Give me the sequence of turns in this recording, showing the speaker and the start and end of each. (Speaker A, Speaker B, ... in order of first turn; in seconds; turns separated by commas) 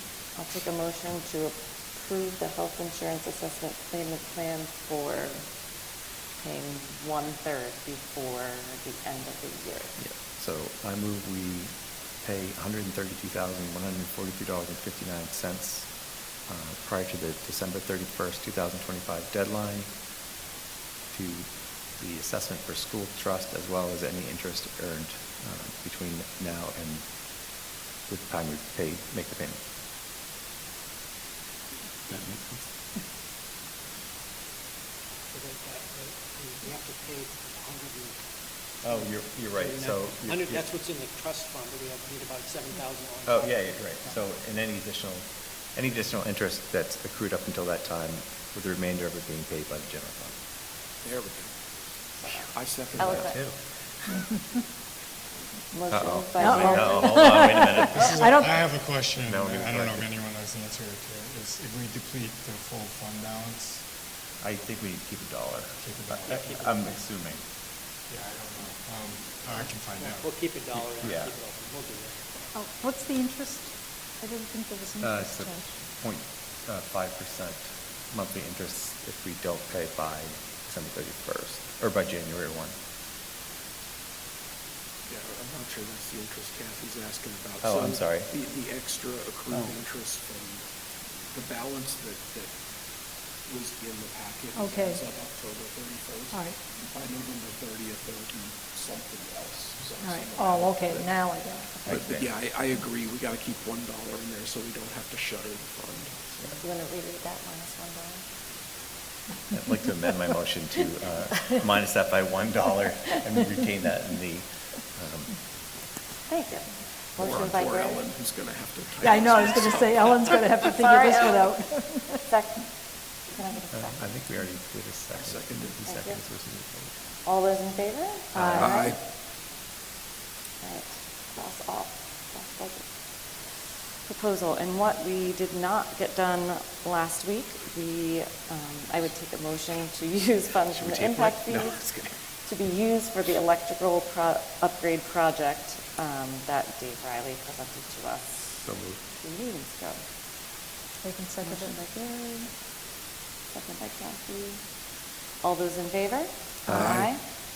Speaker A: 0.3-5.7, Speaker A: 6.4-10.0, Speaker B: 10.0-19.9, Speaker B: 21.1-27.1, Speaker B: 28.1-29.6, Speaker B: 32.1-32.7, Speaker C: 35.3-38.2, Speaker B: 38.8-40.8, Speaker C: 38.9-44.1, Speaker B: 43.2-50.4, Speaker D: 51.0-51.5, Speaker A: 52.2-53.5, Speaker D: 52.2-53.4, Speaker B: 53.0-53.6, Speaker A: 55.7-58.2, Speaker B: 55.9-58.4, Speaker E: 56.4-58.5, Speaker F: 57.9-63.8, Speaker B: 59.2-60.1, Speaker B: 64.4-67.4, Speaker F: 65.8-66.5, Speaker C: 66.2-67.0, Speaker F: 68.1-70.3, Speaker C: 70.0-72.2, Speaker B: 71.0-71.4, Speaker E: 72.5-75.7, Speaker B: 75.0-82.7, Speaker D: 85.1-90.6, Speaker B: 87.6-88.3, Speaker D: 91.3-92.5, Speaker D: 93.5-101.1, Speaker E: 94.5-95.0, Speaker E: 96.3-96.6, Speaker E: 100.0-101.8, Speaker B: 101.8-102.3, Speaker D: 101.8-106.6, Speaker A: 106.6-108.2, Speaker B: 109.5-115.3, Speaker A: 116.3-118.1, Speaker D: 117.2-119.8, Speaker E: 119.0-122.2, Speaker A: 120.6-121.6, Speaker A: 122.2-124.0, Speaker B: 123.7-126.9, Speaker D: 125.1-125.8, Speaker A: 125.8-126.2, Speaker A: 127.2-128.9, Speaker B: 128.3-128.7, Speaker E: 128.4-128.7, Speaker D: 128.6-129.0, Speaker A: 130.6-141.8, Speaker D: 140.7-142.2, Speaker A: 142.4-148.5, Speaker B: 148.5-149.0, Speaker A: 149.2-150.0, Speaker E: 151.0-151.8, Speaker A: 151.4-152.5, Speaker A: 153.5-154.7, Speaker A: 155.4-157.2, Speaker B: 156.7-157.0, Speaker D: 156.7-157.1